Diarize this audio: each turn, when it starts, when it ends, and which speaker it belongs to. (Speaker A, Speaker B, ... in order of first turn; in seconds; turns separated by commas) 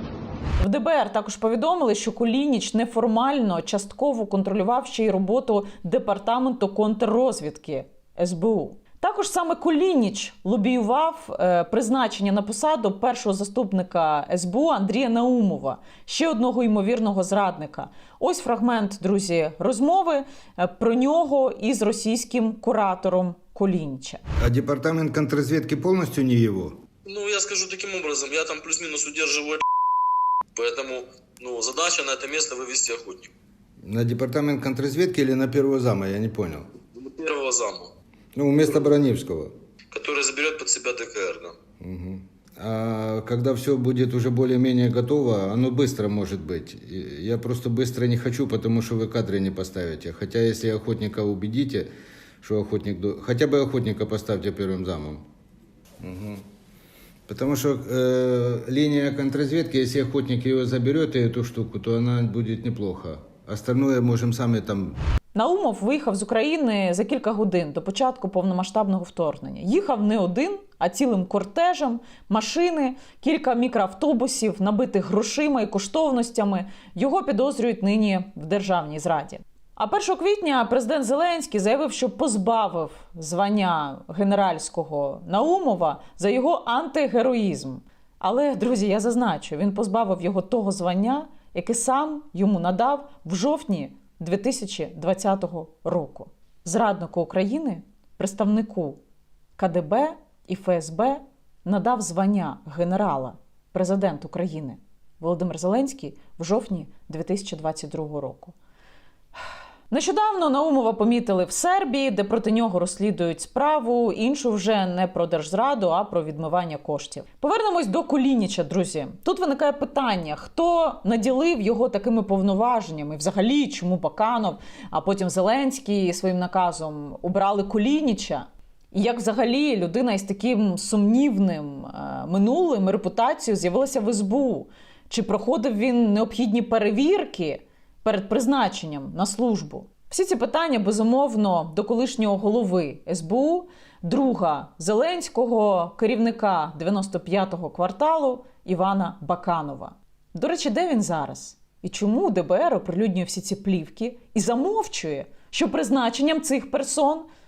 Speaker A: 0.6-24.2, Speaker B: 24.4-26.8, Speaker C: 27.1-29.6, Speaker C: 30.6-33.3, Speaker B: 33.8-36.7, Speaker C: 36.9-37.9, Speaker B: 38.4-39.5, Speaker C: 39.9-41.6, Speaker B: 41.8-51.9, Speaker B: 52.4-55.2, Speaker B: 56.0-56.4, Speaker B: 57.3-65.0, Speaker A: 65.3-99.0, Speaker A: 99.6-108.5, Speaker A: 109.9-157.3